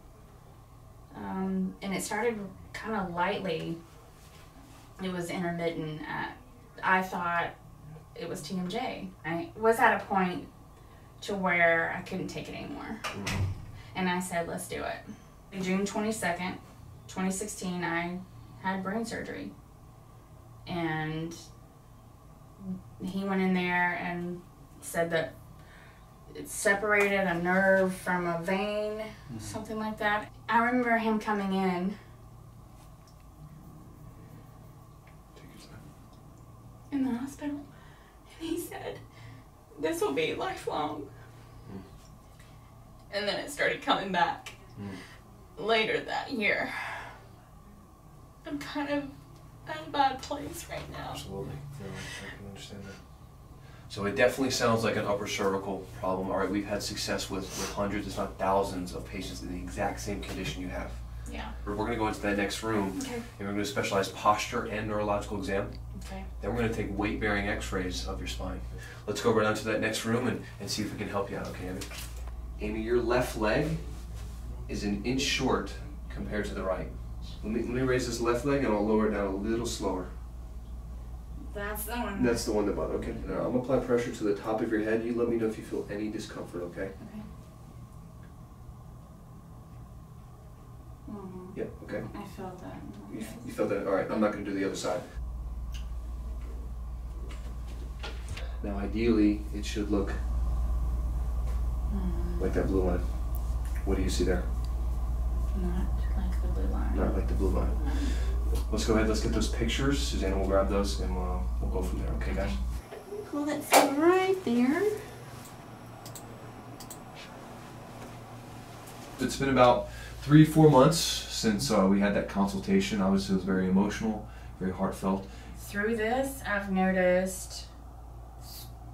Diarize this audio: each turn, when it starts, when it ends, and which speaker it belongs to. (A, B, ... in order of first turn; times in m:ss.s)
0:01.1-0:03.8 A
0:05.0-0:07.5 A
0:08.1-0:10.5 A
0:11.2-0:13.1 A
0:13.1-0:13.4 B
0:13.9-0:19.5 A
0:20.6-0:21.4 A
0:22.6-0:25.3 A
0:26.3-0:32.0 A
0:29.3-0:29.5 B
0:35.3-0:35.8 B
0:36.9-0:37.7 A
0:38.3-0:39.0 A
0:39.7-0:41.1 A
0:43.1-0:44.6 A
0:45.6-0:47.2 A
0:48.4-0:51.3 A
0:51.1-0:53.0 B
0:53.9-1:14.1 B
1:01.2-1:01.5 A
1:02.9-1:03.2 A
1:05.9-1:06.3 A
1:14.6-1:20.1 B
1:21.5-1:22.6 A
1:22.2-1:27.0 B
1:27.0-1:27.2 A
1:31.0-1:34.3 A
1:31.5-1:32.1 B
1:33.1-1:35.1 B
1:38.6-1:40.2 B
1:41.9-1:42.5 A
1:42.4-1:44.5 B
1:45.5-1:48.1 A
1:46.9-1:52.6 B
1:52.3-1:52.6 A
1:53.2-1:54.9 A
1:59.2-2:05.3 B
2:05.5-2:07.7 A